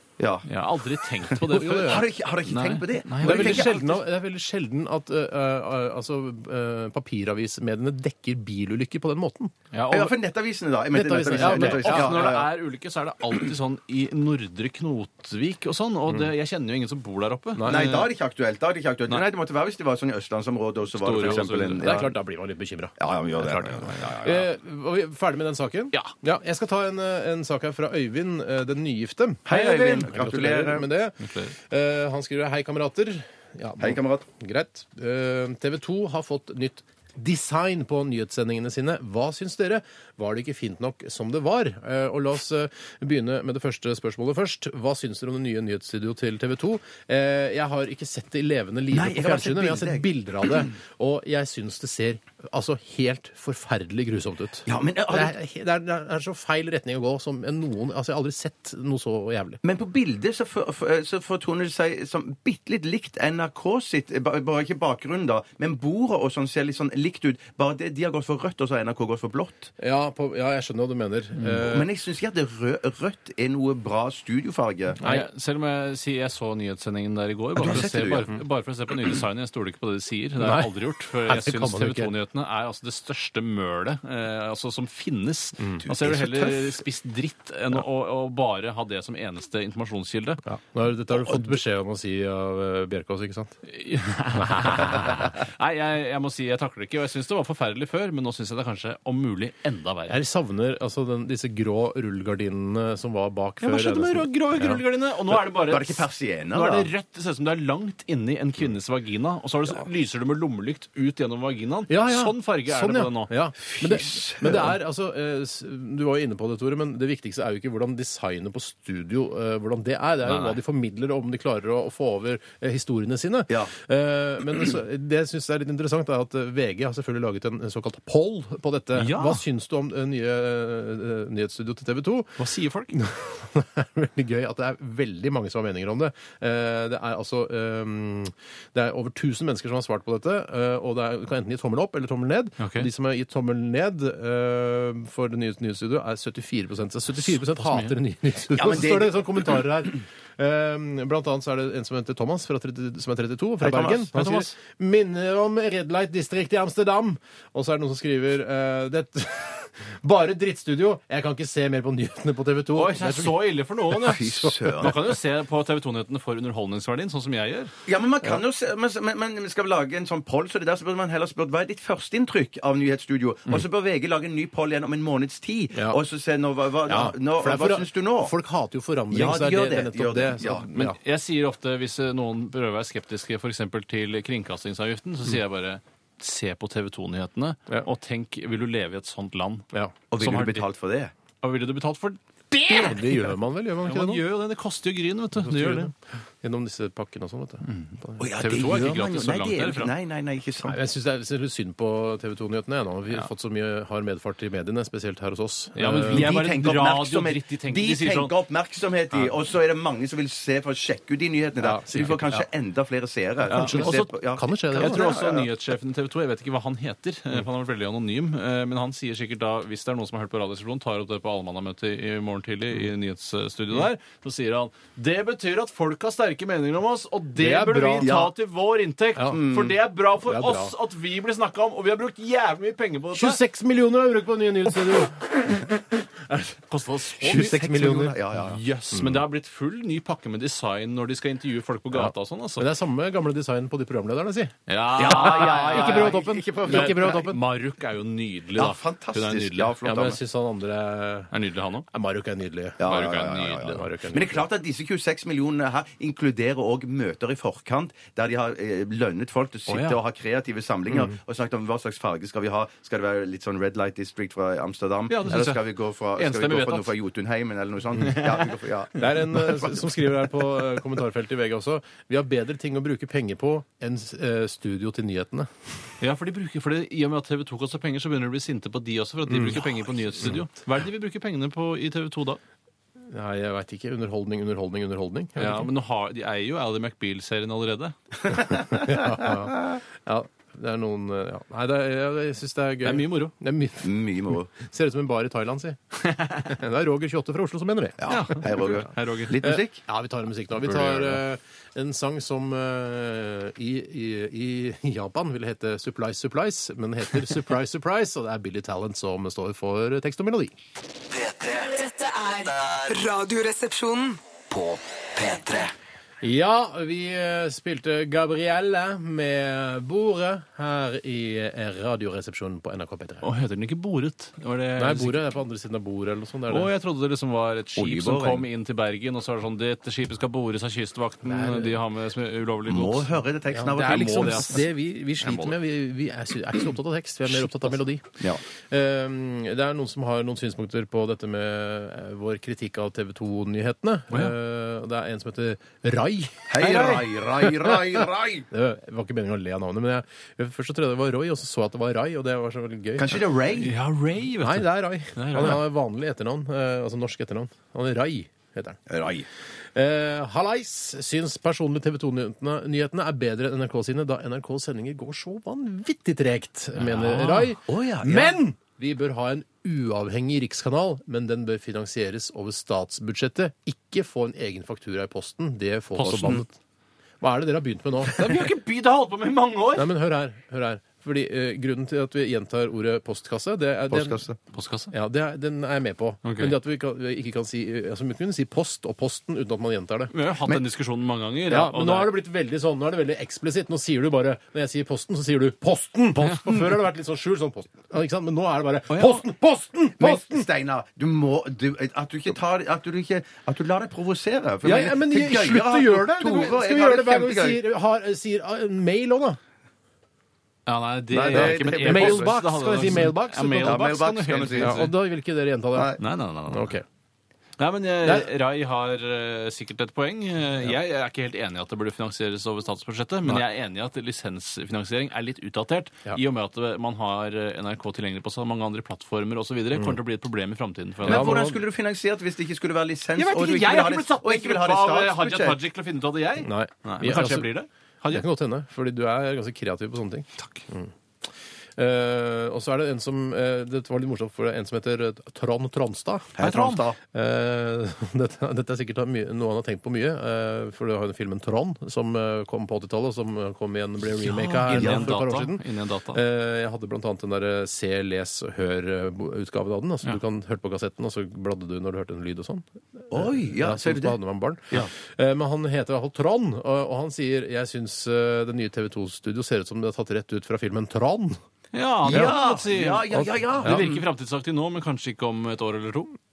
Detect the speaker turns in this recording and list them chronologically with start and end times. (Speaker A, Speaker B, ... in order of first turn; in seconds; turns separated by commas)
Speaker A: 0.2-0.5, Speaker B: 0.5-4.0, Speaker A: 1.3-3.7, Speaker C: 1.4-2.0, Speaker C: 3.2-9.5, Speaker B: 9.7-10.1, Speaker A: 9.9-12.5, Speaker C: 10.9-12.4, Speaker B: 11.3-18.1, Speaker C: 17.6-17.9, Speaker A: 17.7-22.1, Speaker B: 20.9-22.1, Speaker C: 21.8-59.6, Speaker A: 23.0-24.5, Speaker A: 29.5-30.9, Speaker B: 31.2-31.5, Speaker A: 33.8-34.2, Speaker A: 48.9-50.7, Speaker A: 54.7-55.3, Speaker A: 59.6-69.7, Speaker C: 69.8-71.9, Speaker A: 71.6-75.0, Speaker B: 75.0-90.4, Speaker A: 77.6-78.3, Speaker C: 77.6-78.4, Speaker C: 80.4-80.7, Speaker C: 81.2-82.1, Speaker A: 85.8-86.8, Speaker C: 90.5-93.6, Speaker B: 93.7-100.2, Speaker C: 94.4-95.3, Speaker C: 100.1-104.8, Speaker B: 103.6-113.3, Speaker A: 105.5-106.9, Speaker C: 111.9-132.4, Speaker A: 113.7-114.7, Speaker B: 120.2-120.6, Speaker B: 129.0-129.4, Speaker B: 132.4-132.9, Speaker C: 132.9-164.9, Speaker B: 142.6-142.9, Speaker B: 147.2-147.9, Speaker A: 148.5-149.6, Speaker A: 153.6-154.2, Speaker B: 154.2-154.5, Speaker B: 162.8-167.7, Speaker A: 164.0-165.0, Speaker A: 167.9-178.3, Speaker C: 175.7-176.0, Speaker C: 176.9-181.0, Speaker A: 179.1-180.7, Speaker B: 180.7-190.7, Speaker A: 190.1-191.1, Speaker B: 191.4-195.9, Speaker C: 192.7-194.2, Speaker C: 195.4-198.2, Speaker B: 197.7-199.9, Speaker A: 198.2-200.8, Speaker C: 200.6-206.3, Speaker B: 205.8-208.3, Speaker A: 206.0-215.5, Speaker C: 211.6-212.4, Speaker C: 213.5-215.2, Speaker B: 213.5-214.1, Speaker B: 214.8-233.4, Speaker C: 227.4-228.1, Speaker A: 228.0-228.3, Speaker A: 229.3-229.8, Speaker C: 230.3-230.7, Speaker C: 233.1-235.7, Speaker C: 236.3-236.6, Speaker B: 236.7-242.7, Speaker C: 237.2-238.2, Speaker A: 237.2-238.6, Speaker C: 238.9-239.2, Speaker C: 241.9-247.4, Speaker B: 244.7-249.8, Speaker A: 245.0-247.2, Speaker A: 248.6-250.2, Speaker C: 249.8-251.3, Speaker B: 251.3-251.9, Speaker C: 251.9-254.4, Speaker A: 252.8-269.8, Speaker B: 252.9-253.8, Speaker B: 259.7-260.0, Speaker B: 265.1-265.6, Speaker B: 266.1-266.9, Speaker B: 268.0-268.6, Speaker C: 269.0-275.7, Speaker B: 276.0-282.4, Speaker C: 279.3-279.6, Speaker C: 283.1-285.7, Speaker B: 285.4-287.9, Speaker C: 288.3-294.0, Speaker B: 292.8-293.3, Speaker A: 293.8-294.5, Speaker C: 294.5-298.8, Speaker A: 298.0-299.8, Speaker B: 298.1-299.4, Speaker C: 299.4-310.5, Speaker B: 300.8-301.1, Speaker D: 311.1-312.9, Speaker E: 311.8-314.2, Speaker D: 314.5-315.7, Speaker C: 316.2-323.3, Speaker B: 323.2-325.2, Speaker C: 324.8-326.7, Speaker B: 326.5-333.2, Speaker A: 327.8-328.5, Speaker C: 331.2-331.8, Speaker A: 332.7-334.5, Speaker C: 333.5-338.1, Speaker B: 333.7-334.7, Speaker B: 335.2-335.6, Speaker C: 338.7-346.9, Speaker A: 346.5-348.5, Speaker B: 346.6-347.1, Speaker C: 347.4-353.2, Speaker A: 353.0-353.7, Speaker B: 353.6-355.6, Speaker C: 354.4-358.8, Speaker A: 358.9-359.3, Speaker C: 359.8-376.5, Speaker B: 366.8-367.5, Speaker A: 367.7-368.4, Speaker B: 376.0-376.4, Speaker A: 376.1-376.4, Speaker C: 377.2-378.3, Speaker B: 378.1-379.9, Speaker C: 379.8-384.2, Speaker A: 383.9-384.4, Speaker B: 384.5-384.9, Speaker C: 384.9-390.1, Speaker B: 386.2-386.6, Speaker B: 390.1-392.1, Speaker C: 391.5-400.5, Speaker B: 398.9-399.2, Speaker A: 400.0-407.6, Speaker C: 404.6-409.4, Speaker B: 410.7-414.9, Speaker A: 411.1-412.4, Speaker C: 411.2-413.8, Speaker A: 413.6-414.9, Speaker C: 414.6-416.0, Speaker A: 415.7-416.0, Speaker B: 416.0-416.8, Speaker C: 416.5-416.8, Speaker B: 417.6-431.4, Speaker A: 431.0-435.6, Speaker C: 431.1-431.6, Speaker B: 433.2-438.2, Speaker C: 436.4-437.5, Speaker C: 438.1-440.9, Speaker B: 440.4-440.6, Speaker C: 441.8-446.4, Speaker A: 446.4-447.0, Speaker B: 446.4-446.9, Speaker C: 447.1-471.4, Speaker B: 454.2-456.2, Speaker A: 454.7-455.1, Speaker A: 463.1-464.2, Speaker B: 471.7-476.1, Speaker A: 472.1-474.0, Speaker C: 472.1-472.4